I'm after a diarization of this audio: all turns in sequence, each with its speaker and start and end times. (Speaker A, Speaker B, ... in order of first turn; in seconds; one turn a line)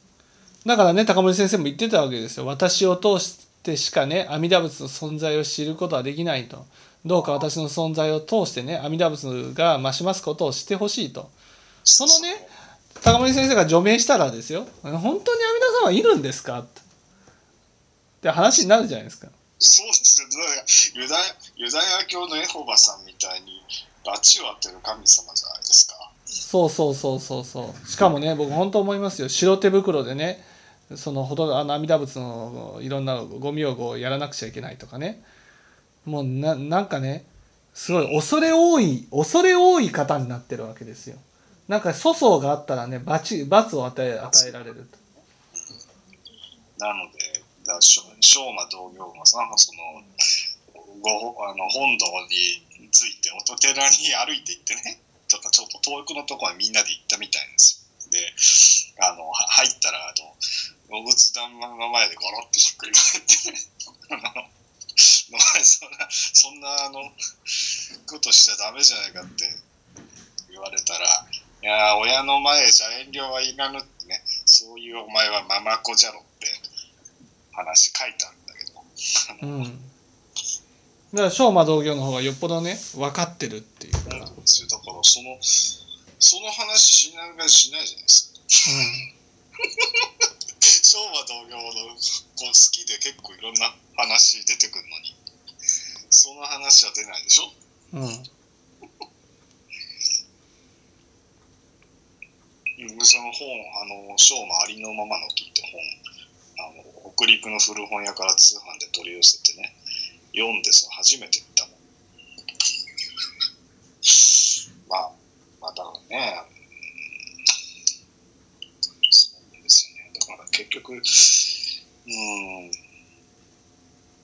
Speaker A: 0.6-11.3
Speaker B: 7.1-7.5
Speaker B: 11.8-12.5
Speaker A: 12.0-12.5
Speaker A: 13.0-16.8
Speaker A: 18.2-19.3
Speaker B: 19.6-26.2
Speaker A: 26.4-35.2
Speaker A: 36.0-45.0
Speaker B: 37.8-38.2
Speaker B: 44.2-44.7
Speaker B: 45.5-45.8
Speaker B: 46.8-50.0
Speaker B: 50.7-63.4
Speaker B: 64.1-64.5
Speaker B: 65.0-67.1
Speaker B: 68.0-69.6
Speaker B: 70.5-76.6
Speaker B: 77.5-79.7
Speaker A: 79.4-79.9
Speaker A: 81.1-84.3
Speaker B: 84.0-85.4
Speaker B: 86.2-88.3
Speaker A: 88.7-89.1
Speaker B: 90.8-95.2
Speaker B: 96.1-97.5
Speaker A: 97.9-98.3
Speaker B: 102.8-105.9
Speaker B: 106.6-109.8
Speaker B: 110.3-111.8
Speaker B: 114.0-116.5
Speaker B: 119.1-122.8